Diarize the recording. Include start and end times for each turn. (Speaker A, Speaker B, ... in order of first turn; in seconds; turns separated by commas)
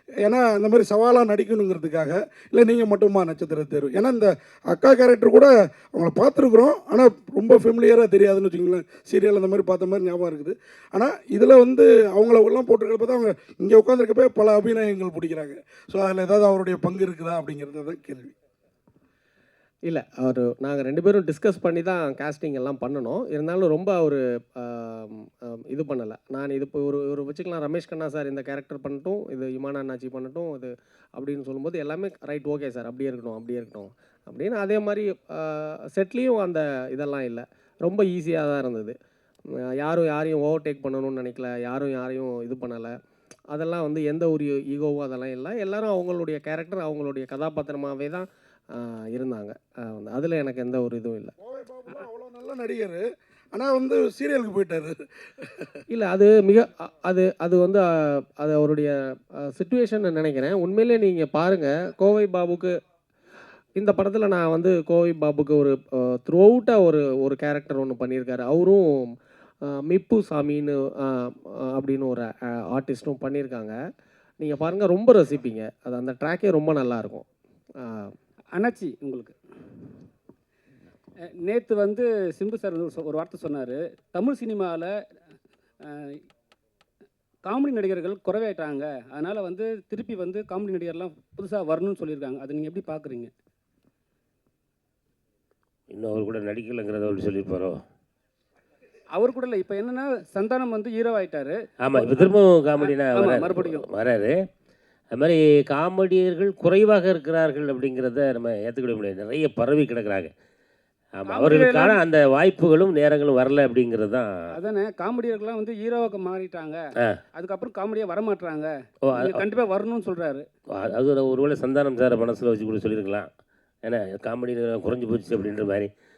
Speaker A: 0.2-18.3, Speaker B: 19.9-38.9, Speaker B: 39.8-42.9, Speaker B: 43.5-48.3, Speaker B: 48.8-51.3, Speaker A: 51.4-55.7, Speaker B: 55.9-62.8, Speaker B: 63.8-69.1, Speaker B: 69.7-73.8, Speaker B: 74.4-77.2, Speaker B: 77.8-78.1, Speaker C: 78.6-79.3, Speaker C: 81.5-84.9, Speaker C: 87.4-93.3, Speaker D: 95.9-97.8, Speaker C: 99.1-103.8, Speaker D: 101.8-104.3, Speaker D: 105.1-110.3, Speaker D: 111.2-114.3, Speaker C: 111.3-112.0, Speaker C: 114.5-116.8, Speaker C: 117.3-120.4, Speaker D: 119.1-119.4, Speaker D: 120.7-123.3, Speaker D: 123.8-125.9